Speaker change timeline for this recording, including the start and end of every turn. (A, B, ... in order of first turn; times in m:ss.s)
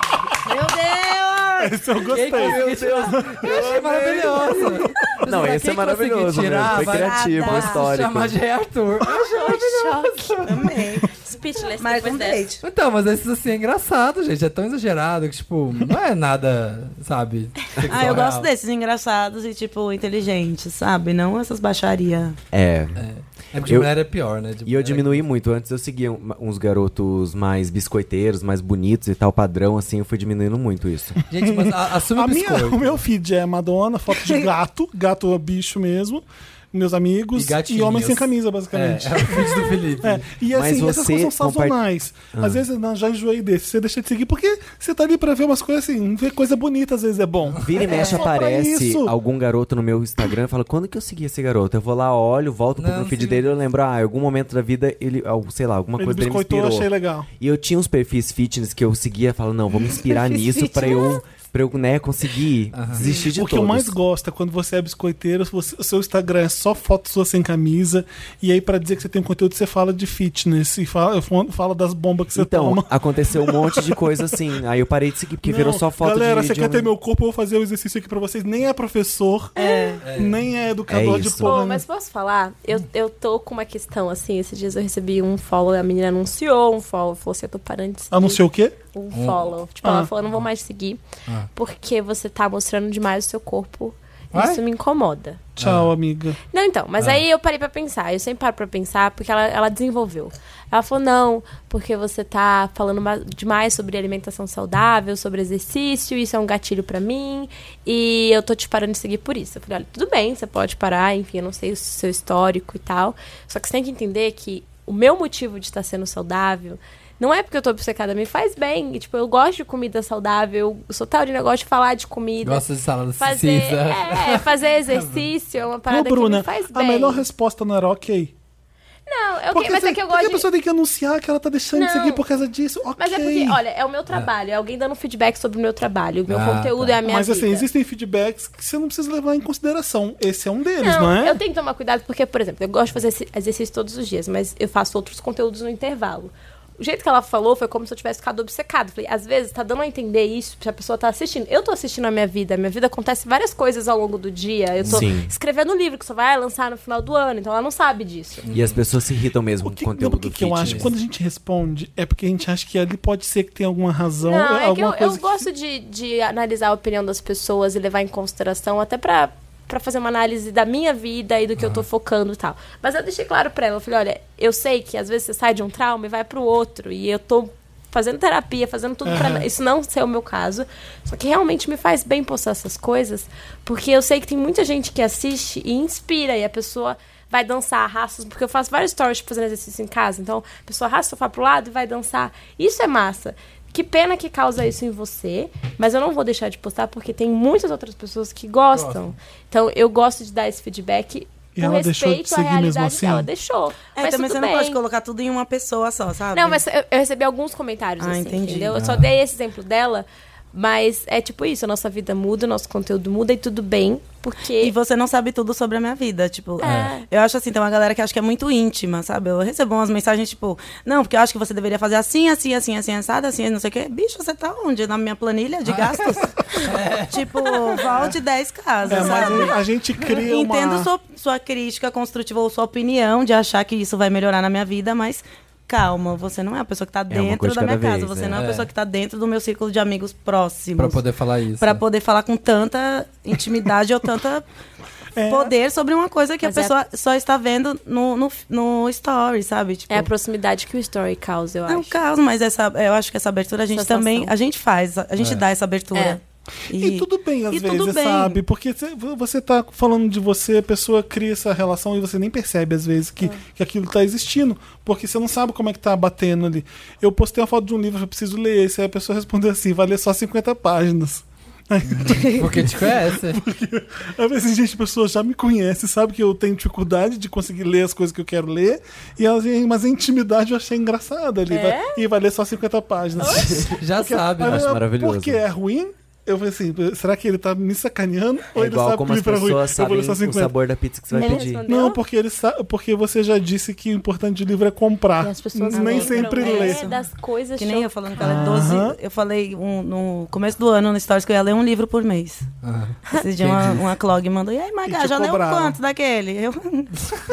0:00.4-0:01.8 A
0:01.6-0:04.6 B
0:02.1-0:10.8 C
0:02.3-0:04.0 D
0:05.2-0:08.4 D
0:06.6-0:07.9 A
0:09.0-0:10.4 E
0:10.4-0:11.1 A
0:11.1-0:12.4 E
0:11.8-0:12.6 A
0:12.6-0:18.5 C
0:17.8-0:18.2 D
0:17.8-0:22.4 A
0:22.5-0:23.0 D
0:23.0-0:25.2 C
0:23.6-0:23.9 D
0:24.6-0:31.2 D
0:31.3-0:33.0 C
0:31.3-0:49.1 B
0:34.1-0:34.5 A
0:37.3-0:40.3 C
0:40.5-0:41.8 D
0:42.3-0:42.6 D
0:47.6-1:04.0 D
0:52.8-0:53.6 C
0:56.0-0:57.3 B
0:59.8-1:01.2 A
1:02.7-1:03.0 C
1:03.0-1:13.9 B
1:12.3-1:16.9 D
1:15.4-1:21.8 B
1:19.6-1:20.0 E
1:19.6-1:19.9 A
1:20.0-1:20.4 C
1:20.9-1:21.5 D
1:21.4-1:28.4 E
1:28.1-1:28.7 B
1:28.9-1:31.0 E
1:29.1-1:29.5 C
1:29.8-1:30.1 B
1:31.5-1:35.4 E
1:34.3-1:34.6 C
1:35.6-1:36.4 B
1:35.6-1:35.9 C
1:36.5-2:02.6 E
2:02.4-2:05.3 C
2:03.2-2:07.2 E
2:05.9-2:08.3 B
2:09.1-2:10.4 E
2:09.5-2:13.6 B
2:11.7-2:12.2 E
2:13.0-2:17.7 E
2:16.3-2:17.0 C
2:17.0-2:21.4 B
2:20.8-2:38.4 E
2:34.8-2:35.3 D
2:38.4-2:38.8 C
2:38.5-2:40.9 D
2:39.6-2:45.5 B
2:40.6-2:40.9 C
2:44.2-3:24.8 E
2:51.6-2:51.8 C
2:59.0-2:59.5 B
3:18.7-3:19.1 C
3:21.6-3:23.3 B
3:23.9-3:26.6 A
3:26.3-3:34.7 E
3:28.0-3:28.8 A
3:28.8-3:29.1 C
3:34.6-4:01.0 A
3:36.6-3:37.0 E
3:36.6-3:36.9 C
3:45.6-3:47.8 C
3:48.8-3:50.9 B
3:57.1-3:58.4 D
3:58.3-3:58.7 C
4:00.8-4:01.8 C
4:01.6-4:04.4 A
4:05.1-4:05.5 B
4:05.3-4:10.1 A
4:06.4-4:06.8 E
4:09.9-4:12.0 E
4:11.7-4:18.4 A
4:13.7-4:14.3 E
4:15.2-4:15.4 C
4:15.9-4:16.2 E
4:16.7-4:50.5 B
4:31.9-4:33.4 C
4:41.5-4:42.0 E
4:43.2-4:43.5 E
4:43.6-4:44.8 C
4:44.4-4:45.4 D
4:48.5-4:51.6 D
4:51.1-4:52.0 E
4:51.6-4:56.9 B
4:55.2-4:58.8 E
4:55.7-4:57.0 A
4:57.6-5:02.5 A
4:58.2-4:59.0 B
5:02.6-5:03.8 C
5:03.1-5:07.0 A
5:04.8-5:05.8 B